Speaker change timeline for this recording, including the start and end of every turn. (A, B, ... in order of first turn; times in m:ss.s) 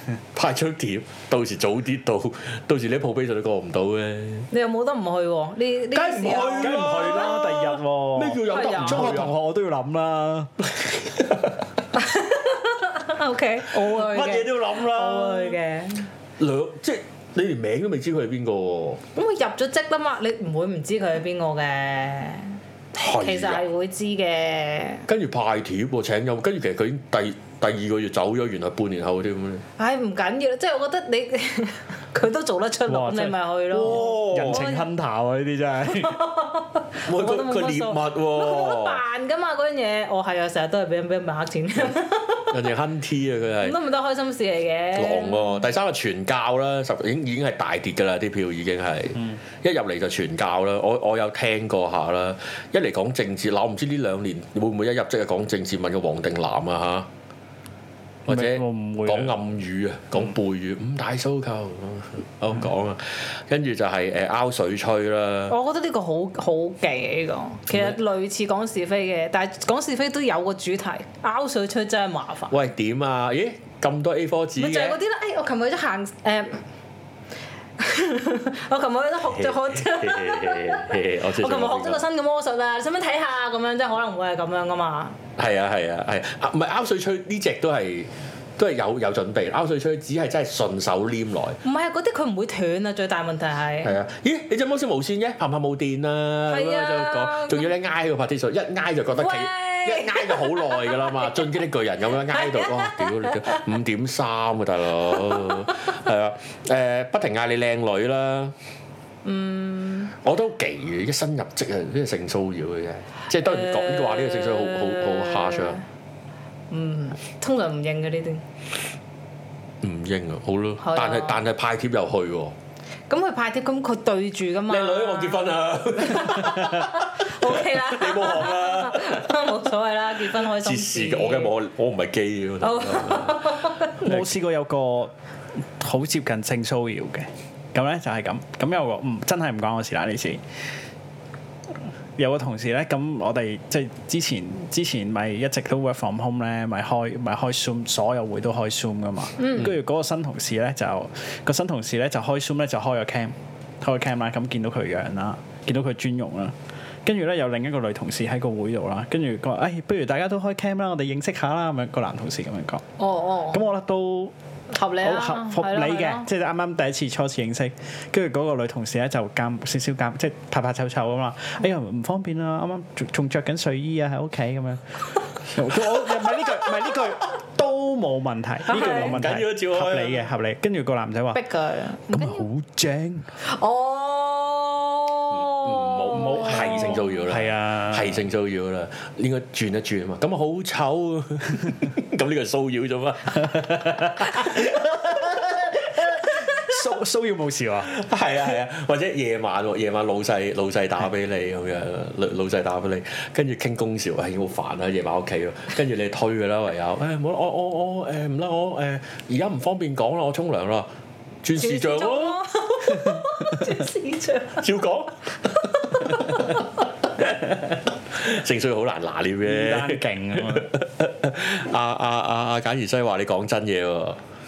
0:00.3-0:04.5 A
0:04.5-0:07.4 B
0:05.9-0:09.3 A
0:06.5-0:10.5 C
0:08.5-0:09.2 B
0:11.2-0:11.5 A
0:12.0-0:16.0 B
0:13.7-0:15.6 A
0:16.4-0:19.0 A
0:19.2-0:22.6 B
0:22.9-0:23.6 A
0:23.2-0:25.0 B
0:25.0-0:29.6 A
0:29.8-0:34.9 B
0:32.9-0:36.2 C
0:33.8-0:34.6 A
0:35.8-0:42.6 B
0:37.0-0:39.0 A
0:42.5-0:43.8 A
0:43.6-0:45.7 B
0:44.9-0:57.1 A
0:58.2-1:05.6 A
0:58.3-0:59.3 C
1:05.5-1:12.5 B
1:07.7-1:08.0 A
1:12.5-1:15.0 A
1:14.6-1:16.6 B
1:17.8-1:25.2 B
1:19.3-1:22.0 A
1:25.4-1:31.6 A
1:31.6-1:33.9 B
1:33.8-1:48.5 A
1:36.5-1:37.7 B
1:39.2-1:41.5 B
1:42.3-1:43.6 B
1:45.4-1:45.7 B
1:49.2-1:50.1 B
1:50.2-1:55.8 A
1:53.3-1:55.8 B
1:56.7-1:58.4 B
1:59.8-2:02.5 A
2:00.8-2:01.4 B
2:03.1-2:11.5 B
2:04.7-2:09.3 A
2:10.3-2:14.3 A
2:12.6-2:13.9 B
2:14.0-2:15.1 C
2:15.8-2:20.4 C
2:22.2-2:42.8 C
2:29.4-2:29.7 B
2:43.0-2:43.6 B
2:43.5-2:44.3 C
2:44.7-2:46.3 B
2:45.0-2:54.8 C
2:55.4-3:01.4 C
2:58.7-3:00.2 A
2:58.7-2:59.2 B
3:01.3-3:02.4 B
3:02.1-3:03.3 C
3:03.4-3:07.1 B
3:05.3-3:15.4 A
3:07.3-3:08.2 C
3:13.5-3:17.9 C
3:16.1-3:16.4 A
3:17.8-3:30.9 A
3:31.4-3:32.4 A
3:31.6-3:34.7 B
3:34.6-3:36.6 A
3:35.7-3:36.6 B
3:37.2-3:44.2 A
3:39.4-3:40.7 C